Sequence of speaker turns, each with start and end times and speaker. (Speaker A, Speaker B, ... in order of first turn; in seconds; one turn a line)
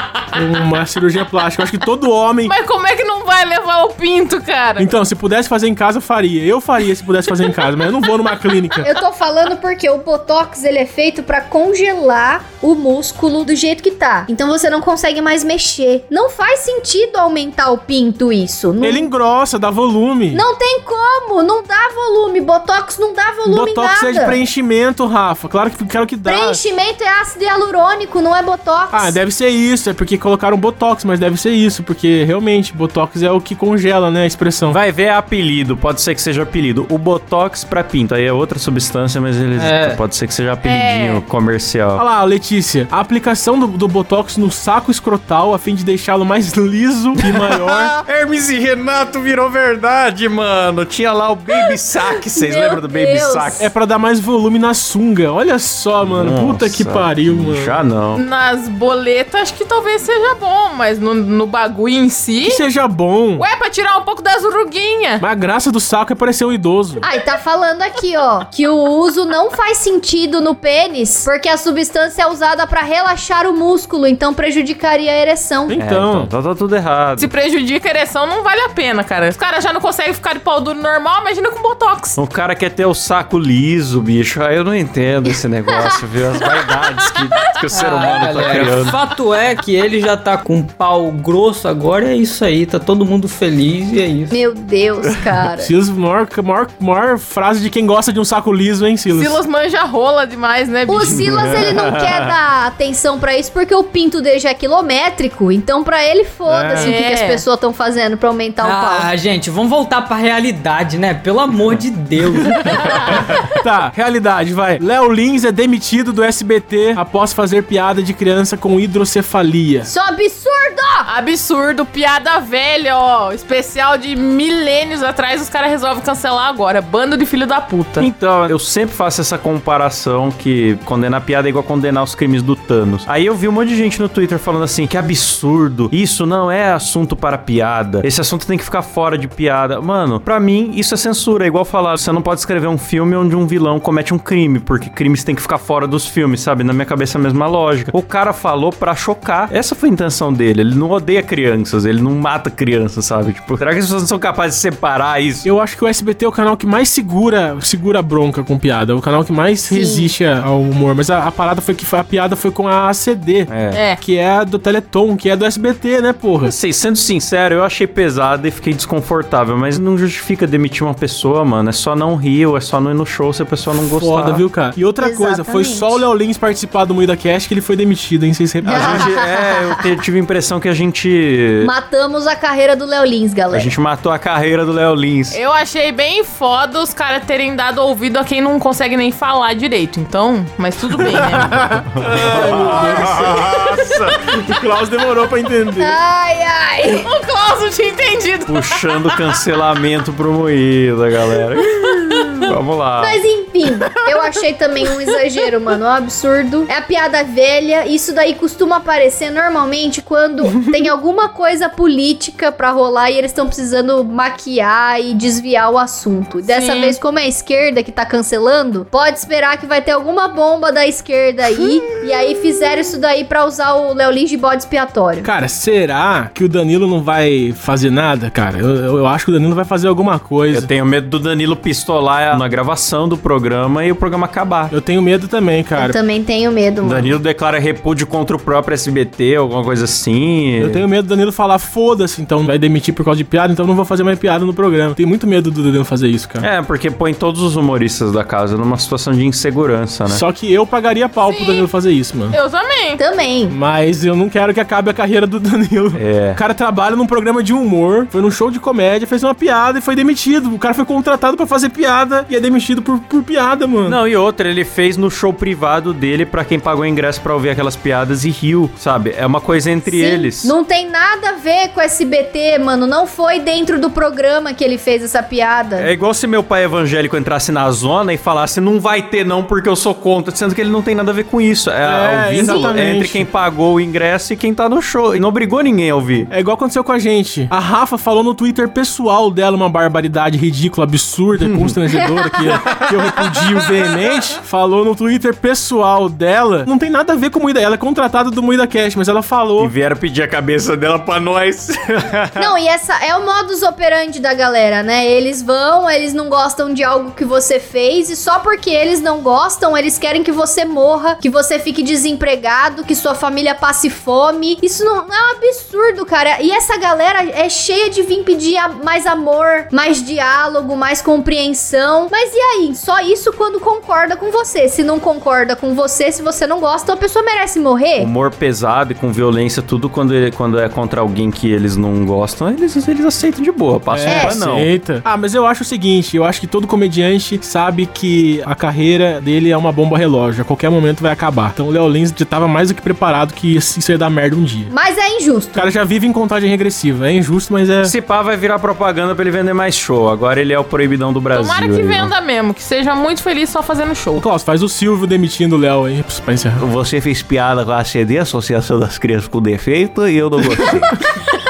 Speaker A: 0.3-2.5
Speaker B: 2.5-4.9
Speaker A: 4.8-8.8
Speaker B: 7.3-7.8
Speaker C: 8.8-19.1
Speaker A: 18.8-20.4
Speaker C: 20.3-24.4
Speaker A: 23.5-26.6
Speaker C: 26.2-29.2
Speaker A: 28.9-34.8
Speaker D: 34.7-42.0
Speaker E: 39.6-40.0
Speaker B: 40.6-41.2
Speaker A: 42.0-47.9
Speaker D: 47.3-53.6
Speaker C: 51.7-53.7
Speaker A: 53.6-57.8
Speaker D: 56.0-58.2
Speaker B: 58.1-62.6
Speaker A: 62.4-63.5
Speaker B: 63.4-65.2
Speaker A: 65.2-67.1
Speaker C: 67.0-75.8
Speaker A: 75.7-76.3
Speaker D: 75.8-77.3
Speaker B: 77.2-82.2
Speaker D: 82.2-89.0
Speaker E: 87.8-94.3
Speaker C: 94.3-95.7
Speaker A: 95.6-99.4
Speaker B: 99.1-101.3
Speaker C: 100.9-109.1
Speaker D: 101.1-102.3
Speaker A: 106.5-106.9
Speaker B: 106.7-107.5
Speaker E: 108.6-112.4
Speaker B: 112.5-113.2
Speaker A: 113.6-119.9
Speaker C: 119.9-121.1
Speaker B: 121.1-128.1
Speaker D: 128.0-155.5
Speaker A: 155.4-166.6
Speaker C: 159.7-160.1
Speaker D: 163.5-163.9
Speaker B: 163.7-164.0
Speaker D: 166.4-174.4
Speaker A: 173.8-179.1
Speaker C: 175.0-176.0
Speaker C: 178.7-179.8
Speaker D: 178.7-181.7
Speaker C: 181.6-183.7
Speaker D: 183.5-185.4
Speaker B: 185.3-191.6
Speaker D: 191.1-194.2
Speaker A: 191.5-193.6
Speaker B: 193.3-193.9
Speaker A: 194.3-196.0
Speaker C: 195.8-197.1
Speaker B: 197.0-199.2
Speaker D: 198.5-201.7
Speaker B: 201.6-202.4
Speaker D: 202.4-203.2
Speaker C: 203.0-225.3
Speaker B: 216.5-217.0
Speaker A: 225.2-230.7
Speaker D: 230.5-234.7
Speaker A: 234.7-235.9
Speaker C: 235.8-237.2
Speaker D: 236.8-240.8
Speaker A: 240.6-246.5
Speaker D: 246.4-250.2
Speaker A: 250.1-252.4
Speaker B: 251.2-251.7
Speaker B: 252.3-253.0
Speaker C: 253.0-253.6
Speaker A: 253.5-264.0
Speaker D: 255.9-256.4
Speaker D: 263.9-270.5
Speaker C: 269.9-275.9
Speaker D: 275.8-286.3
Speaker A: 281.9-283.3
Speaker C: 282.4-282.8
Speaker A: 286.3-299.7
Speaker D: 291.4-294.1
Speaker D: 299.6-302.5
Speaker C: 302.4-328.1
Speaker D: 328.0-334.7
Speaker A: 333.9-344.7
Speaker C: 334.1-334.4
Speaker C: 344.7-345.7
Speaker A: 345.6-347.9
Speaker D: 347.8-352.1
Speaker B: 351.3-354.2
Speaker A: 354.2-356.6
Speaker D: 356.6-361.0